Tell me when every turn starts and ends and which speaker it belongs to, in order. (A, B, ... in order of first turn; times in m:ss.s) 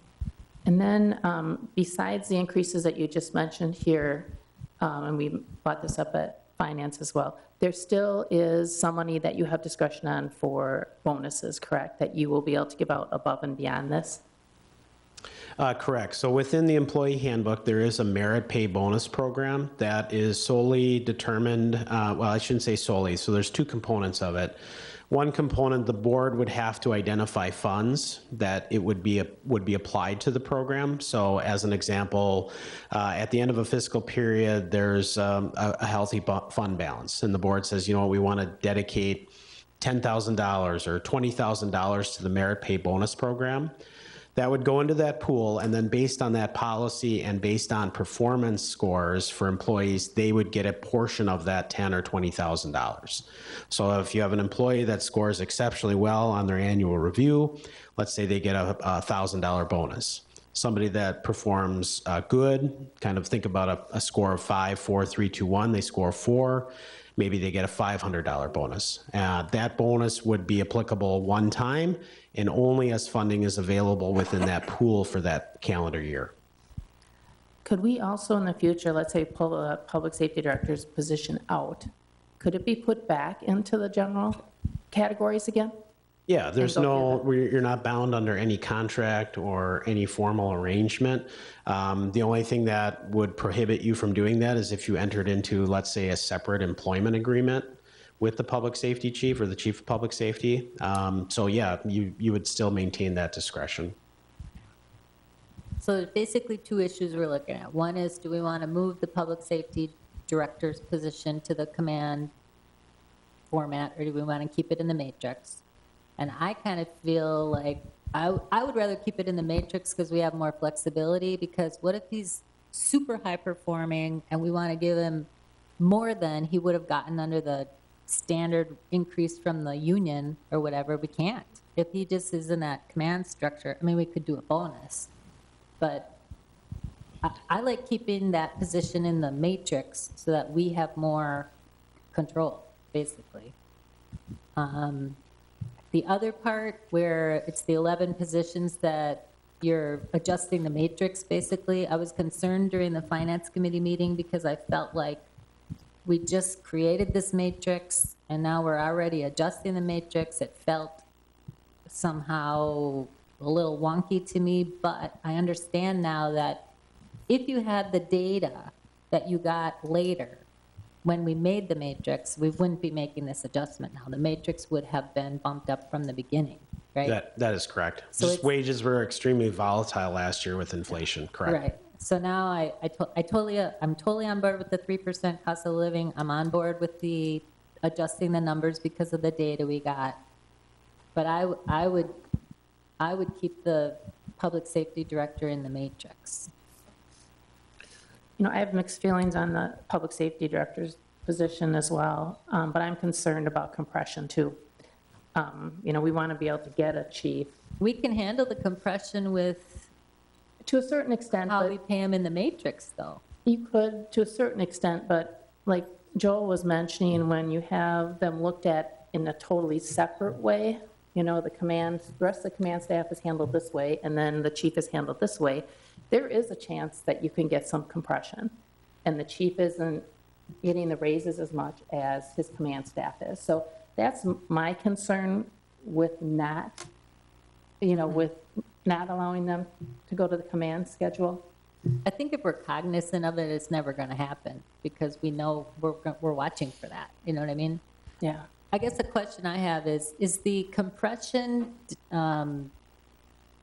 0:00.6-0:14.2 A
0:15.6-0:24.6 B
0:25.1-0:43.7 B
0:44.3-1:16.3 B
1:17.6-1:25.8 A
1:26.3-1:44.0 B
1:26.6-1:27.2 A
1:45.8-1:52.3 C
1:53.5-1:55.6 C
1:56.2-2:05.3 C
2:05.8-2:15.1 C
2:15.8-2:16.1 C
2:17.2-2:21.5 C
2:22.1-2:23.5 C
2:24.6-2:25.2 C
2:25.9-2:35.2 C
2:36.0-2:41.0 C
2:41.9-2:46.6 C
2:47.3-2:50.4 C
2:51.0-2:57.2 C
2:57.0-3:01.6 B
2:58.2-2:58.5 C
3:01.4-3:10.2 C
3:11.1-3:12.2 C
3:13.0-3:16.5 C
3:18.4-3:24.6 A
3:25.3-3:27.6 A
3:27.8-3:29.9 C
3:30.6-3:31.8 A
3:31.5-3:33.2 C
3:33.4-3:50.1 A
3:50.6-3:56.9 A
3:57.8-4:01.5 A
4:02.0-4:07.8 C
4:08.2-4:08.5 A
4:08.7-4:12.7 C